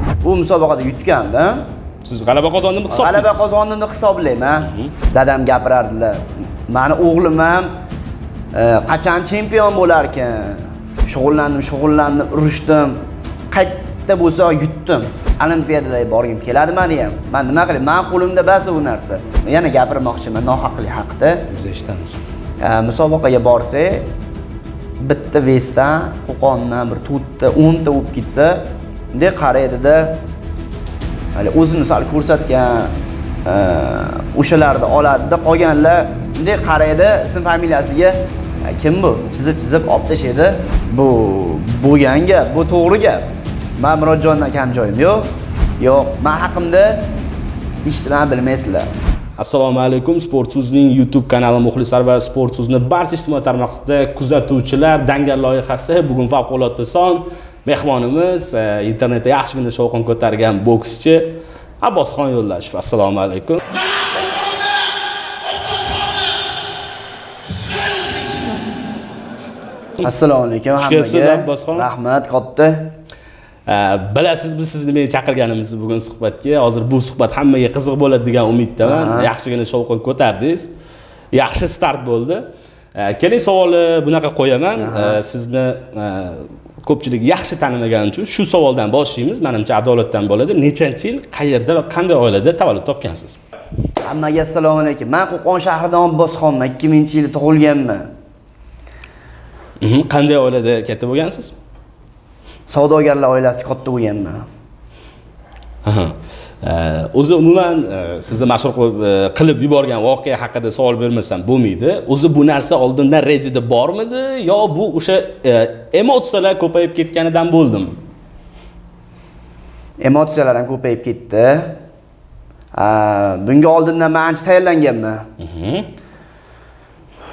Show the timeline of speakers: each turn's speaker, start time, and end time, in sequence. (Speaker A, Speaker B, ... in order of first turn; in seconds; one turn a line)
Speaker A: 0.2-1.6
Speaker B: 2.0-3.5
Speaker A: 2.9-7.7
Speaker B: 4.6-4.9
Speaker A: 8.5-21.5
Speaker B: 21.5-22.2
Speaker A: 22.6-24.1
Speaker A: 25.0-30.2
Speaker A: 31.3-32.9
Speaker A: 33.4-47.0
Speaker A: 47.8-48.9
Speaker B: 49.4-63.7
Speaker A: 70.0-72.9
Speaker B: 70.7-71.9
Speaker B: 73.7-80.7
Speaker A: 78.8-79.3
Speaker B: 81.3-82.4
Speaker B: 83.0-93.4
Speaker A: 84.8-85.2
Speaker A: 94.0-98.1
Speaker B: 99.8-101.5
Speaker A: 102.7-104.4
Speaker B: 105.8-118.0
Speaker A: 120.0-121.7
Speaker A: 122.7-125.3
Speaker B: 125.4-125.9